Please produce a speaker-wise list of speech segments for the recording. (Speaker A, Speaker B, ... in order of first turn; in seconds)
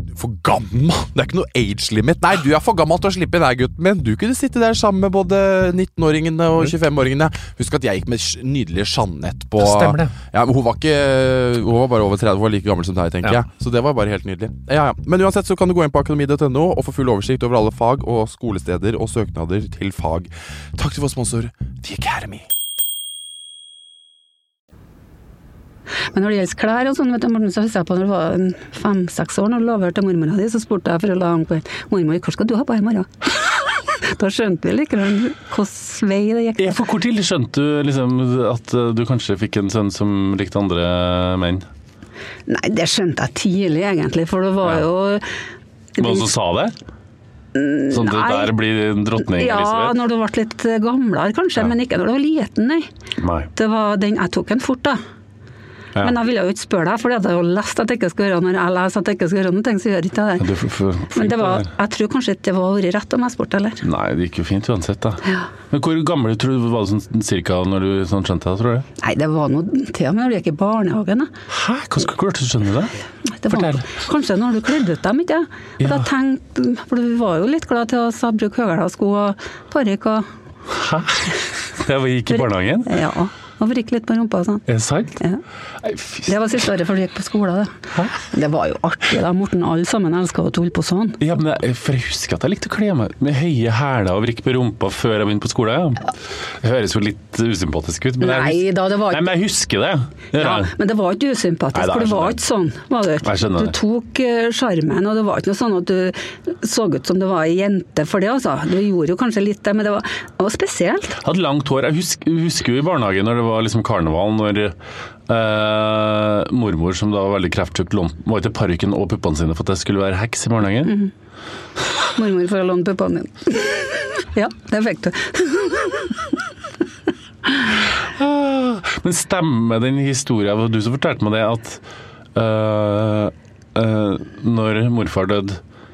Speaker A: 0.2-22.5
Speaker B: 9.6-10.1, 36.6-41.7, 46.0-46.8, 47.9-50.0, 53.2-53.5, 60.4-61.7, 63.8-68.9, 71.5-72.9, 73.5-73.9, 75.8-76.1, 80.7-82.9, 84.7-85.2, 85.8-86.3, 91.2-100.7, 101.7-102.4, 103.2-103.8, 111.2-114.8, 115.3-121.0, 128.0-131.8, 132.3-135.6
Speaker C: 26.1-36.8, 42.5-45.2, 46.0-46.3, 47.5-48.6, 49.2-52.9, 53.5-55.0, 56.0-60.5, 61.1-63.8, 69.0-71.3, 73.3-80.3, 82.3-84.7, 86.2-91.2, 98.2-99.3, 100.3-111.2, 120.8-121.1, 122.2-126.2